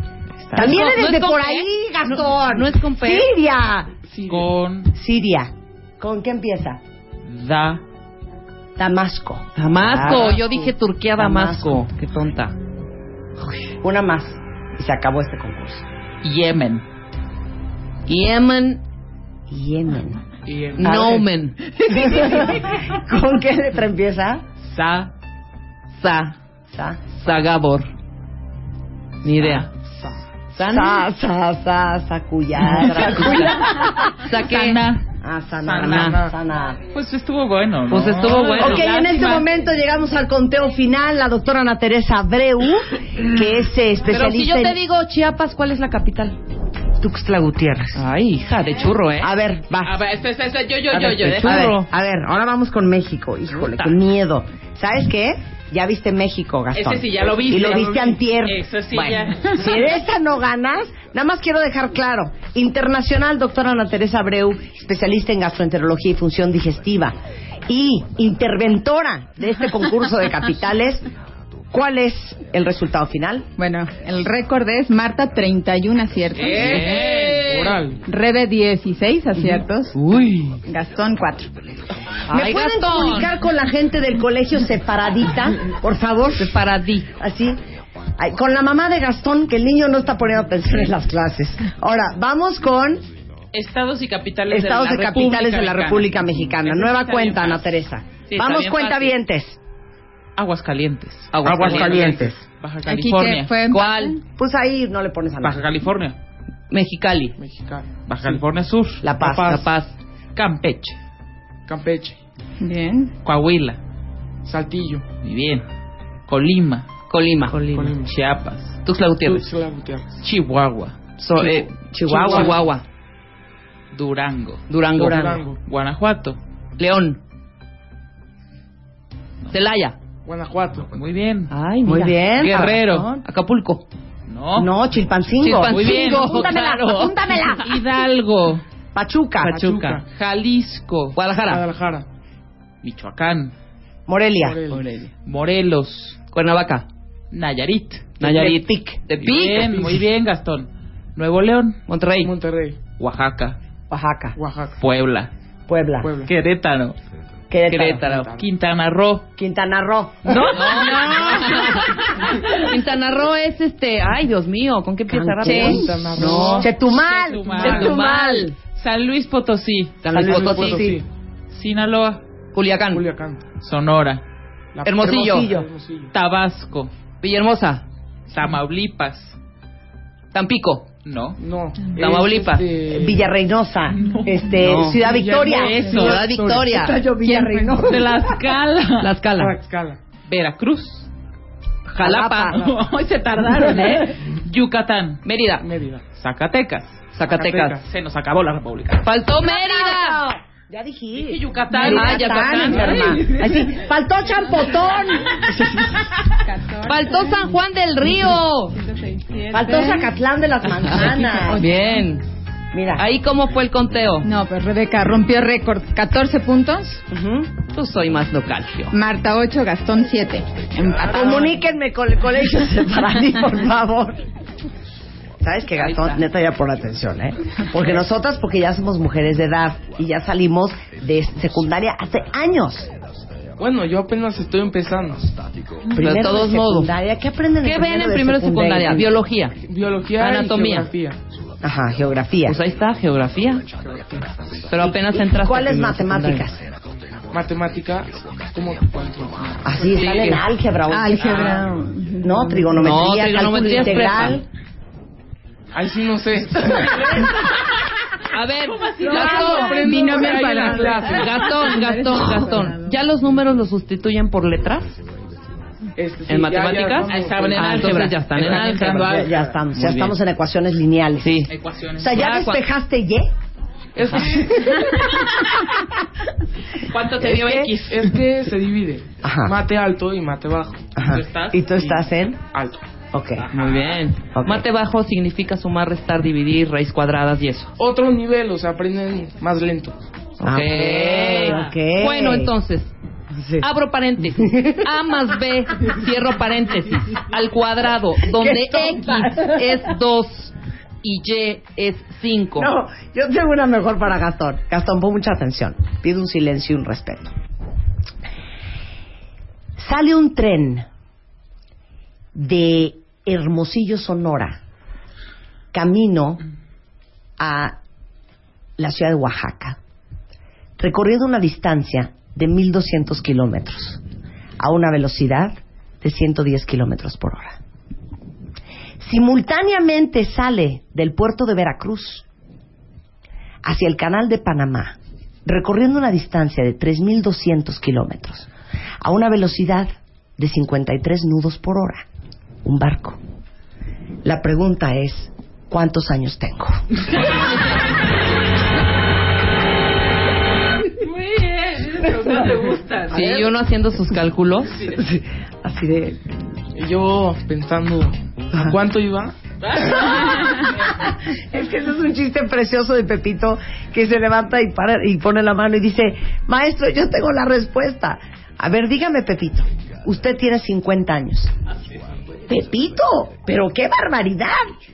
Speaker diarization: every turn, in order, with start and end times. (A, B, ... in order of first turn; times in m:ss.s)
0:00.4-0:00.9 A
0:00.5-0:03.9 B
0:00.6-0:03.3 C
0:04.1-0:04.5 D
0:04.3-0:04.9 A
0:04.9-0:06.8 B
0:07.3-0:07.8 A
0:08.8-0:10.6 B
0:09.6-0:12.6 C
0:10.1-0:10.4 D
0:11.2-0:11.8 B
0:13.7-0:15.8 B
0:16.2-0:16.8 A
0:18.1-0:18.8 C
0:19.5-0:20.2 B
0:20.5-0:21.3 D
0:20.8-0:21.2 B
0:20.8-0:21.6 C
0:21.9-0:24.4 B
0:24.6-0:25.1 A
0:26.0-0:26.4 C
0:26.7-0:27.1 B
0:27.2-0:27.9 C
0:29.2-0:29.7 C
0:29.9-0:30.2 D
0:30.5-0:31.1 C
0:30.6-0:34.2 B
0:32.8-0:34.8 C
0:34.4-0:35.0 A
0:35.2-0:36.8 B
0:35.6-0:36.1 A
0:35.9-0:36.2 C
0:35.9-0:36.3 D
0:36.9-0:39.5 A
0:37.9-0:38.8 C
0:38.6-0:44.8 B
0:44.1-0:46.4 C
0:47.0-0:48.0 B
0:48.0-0:49.3 C
0:49.2-0:50.0 B
0:49.8-0:51.7 A
0:50.9-0:51.9 C
0:51.4-1:07.2 B
0:53.5-0:54.0 C
0:56.7-0:59.7 A
1:07.7-1:11.0 B
1:11.7-1:13.5 B
1:13.6-1:16.9 E
1:16.4-1:17.7 A
1:16.5-1:17.7 C
1:16.9-1:18.0 D
1:18.1-1:19.9 E
1:20.0-1:20.6 C
1:20.7-1:21.5 E
1:22.3-1:23.3 C
1:22.3-1:26.6 B
1:26.4-1:27.1 C
1:27.2-1:27.6 B
1:28.2-1:33.0 B
1:33.5-1:37.8 A
1:34.5-1:39.6 B
1:38.4-1:39.2 C
1:40.4-1:43.5 A
1:41.3-1:42.0 C
1:41.5-1:42.4 B
1:41.5-1:42.3 D
1:42.9-1:44.2 E
1:43.7-1:44.2 C
1:44.4-1:45.6 B
1:45.4-1:46.2 A
1:46.7-1:47.4 C
1:47.4-1:48.4 D
1:48.1-1:49.0 A
1:49.0-1:49.6 B
1:49.2-1:49.7 D
1:49.4-1:50.0 C
1:50.4-1:51.0 A
1:51.7-1:52.2 D
1:52.6-1:53.1 E
1:53.2-1:53.8 A
1:54.4-1:55.0 D
1:55.2-1:55.6 A
1:56.3-1:56.9 A
1:57.1-1:57.9 C
1:57.6-1:58.1 D
1:58.0-1:58.8 A
1:58.8-1:59.4 C
1:59.2-2:00.2 D
2:00.2-2:01.0 A
2:01.2-2:02.8 C
2:01.4-2:02.6 B
2:02.1-2:02.6 D
2:03.9-2:04.6 A
2:04.7-2:05.3 C
2:05.0-2:05.6 D
2:05.0-2:05.4 B
2:05.6-2:06.4 A
2:06.8-2:07.2 C
2:09.5-2:10.0 C
2:10.2-2:10.9 D
2:10.9-2:11.5 A
2:11.5-2:13.8 C
2:11.8-2:13.2 B
2:12.4-2:13.1 A
2:14.3-2:14.7 A
2:14.6-2:17.6 B
2:15.4-2:17.7 C
2:15.6-2:16.6 A
2:17.6-2:18.6 A
2:18.9-2:19.6 B
2:19.4-2:20.0 C
2:19.5-2:20.0 D
2:20.1-2:21.2 A
2:21.1-2:21.7 C
2:21.5-2:22.1 D
2:22.8-2:23.5 A
2:24.1-2:24.6 B
2:24.4-2:24.9 D
2:24.7-2:25.1 C
2:25.3-2:26.2 A
2:26.3-2:26.9 C
2:27.3-2:28.2 A
2:28.2-2:29.0 B
2:28.2-2:30.0 C
2:29.2-2:31.8 A
2:31.9-2:32.3 C
2:32.2-2:32.8 D
2:33.0-2:33.6 A
2:33.9-2:34.4 B
2:34.4-2:34.8 D
2:34.8-2:35.3 A
2:35.7-2:36.1 B
2:36.0-2:36.3 D
2:36.3-2:37.0 A
2:37.5-2:38.0 B
2:37.7-2:38.3 C
2:37.9-2:38.5 D
2:38.3-2:39.3 A
2:39.4-2:42.0 B
2:40.3-2:41.9 C
2:40.6-2:42.3 A
2:42.5-2:46.7 C
2:45.1-2:48.6 B
2:45.4-2:46.7 D
2:46.8-2:48.0 A
2:47.5-2:47.8 D
2:47.6-2:48.5 C
2:48.8-2:50.3 A
2:50.0-2:51.0 C
2:50.1-2:51.0 B
2:50.1-2:51.1 D
2:51.5-2:52.2 A
2:52.5-2:53.0 C
2:52.9-2:53.4 D
2:53.6-2:54.2 A
2:54.7-2:56.1 D
2:54.8-2:55.5 C
2:55.0-2:55.7 B
2:56.1-2:56.9 A
2:57.2-2:57.8 C
2:58.3-2:59.4 A
3:00.3-3:00.9 C
3:01.0-3:01.4 A
3:01.4-3:03.2 D
3:02.0-3:02.7 C
3:02.9-3:05.8 B
3:03.9-3:04.6 A
3:04.6-3:05.0 C
3:04.8-3:06.8 D
3:05.4-3:06.2 A
3:05.9-3:07.0 C
3:06.7-3:08.3 B
3:07.2-3:08.0 E
3:07.8-3:09.1 A
3:09.0-3:09.5 C
3:09.3-3:10.0 D
3:10.3-3:11.1 A
3:11.9-3:12.6 C
3:12.0-3:12.7 B
3:12.5-3:15.2 A
3:15.2-3:15.6 C
3:15.6-3:16.0 D
3:16.2-3:17.2 A
3:17.2-3:17.8 C
3:17.3-3:17.8 D
3:17.8-3:19.1 A
3:19.0-3:20.2 C
3:19.4-3:26.3 B
3:21.2-3:23.5 A
3:21.9-3:23.2 C
3:26.4-3:27.5 E
3:26.8-3:28.8 C
3:28.3-3:30.1 E
3:29.5-3:31.7 B
3:30.9-3:32.2 C
3:31.0-3:31.7 E
3:32.7-3:33.0 B
3:33.0-3:34.3 C
3:34.2-3:37.0 E
3:37.1-3:37.5 B
3:37.7-3:39.0 C
3:38.9-3:41.5 E
3:41.1-3:44.2 B
3:45.4-3:52.9 B
3:45.8-3:46.2 C
3:53.6-3:55.3 D
3:55.9-3:59.1 B
3:56.0-3:56.9 C
3:57.6-3:59.5 C
3:59.7-4:01.2 D
4:00.2-4:00.9 C
4:01.6-4:02.6 B
4:02.5-4:03.6 C
4:04.7-4:06.5 C
4:04.8-4:06.7 B
4:07.3-4:09.7 D
4:09.6-4:11.7 B
4:09.9-4:10.4 C
4:10.9-4:12.9 E
4:11.2-4:11.5 A
4:12.2-4:14.5 B
4:12.8-4:14.4 C
4:15.7-4:17.3 D
4:17.1-4:17.5 A
4:18.3-4:20.2 C
4:18.7-4:20.0 A
4:19.1-4:22.9 E
4:19.1-4:21.8 D
4:21.0-4:24.9 C
4:26.0-4:28.0 D
4:26.3-4:29.0 C
4:27.0-4:30.1 A
4:28.5-4:33.3 B
4:29.8-4:30.1 C
4:31.2-4:31.5 C
4:31.5-4:32.2 A
4:32.1-4:32.6 C
4:34.0-4:34.8 D
4:36.8-4:38.2 A
4:37.2-4:37.7 B
4:37.9-4:40.8 D
4:39.2-4:39.6 B
4:41.0-4:42.4 B
4:41.1-4:41.9 A
4:41.9-4:42.8 D
4:43.1-4:43.5 B
4:43.4-4:44.0 A
4:43.5-4:47.7 C
4:44.3-4:44.6 B
4:47.8-4:50.0 D
4:50.4-4:52.9 C
4:50.4-4:52.5 B
4:53.3-4:53.7 B
4:53.6-5:02.7 C
4:54.3-4:54.8 B
4:58.3-4:59.7 B
5:02.6-5:07.3 B
5:09.8-5:10.9 B
5:12.4-5:14.6 B
5:15.7-5:16.4 B
5:17.4-5:17.8 B
5:18.8-5:19.8 B
5:20.8-5:24.0 B
5:24.6-5:27.6 B
5:29.0-5:32.3 B
5:33.6-5:38.5 B
5:39.0-5:42.0 B
5:42.6-5:43.2 B
5:44.2-5:46.8 B
5:50.9-5:53.5 A
5:53.1-5:54.7 C
5:53.2-5:53.5 B
5:54.9-5:56.2 B
5:56.8-5:59.4 D
5:58.5-5:58.8 B
5:59.6-6:00.7 A
5:59.9-6:11.5 B
6:12.5-6:14.6 B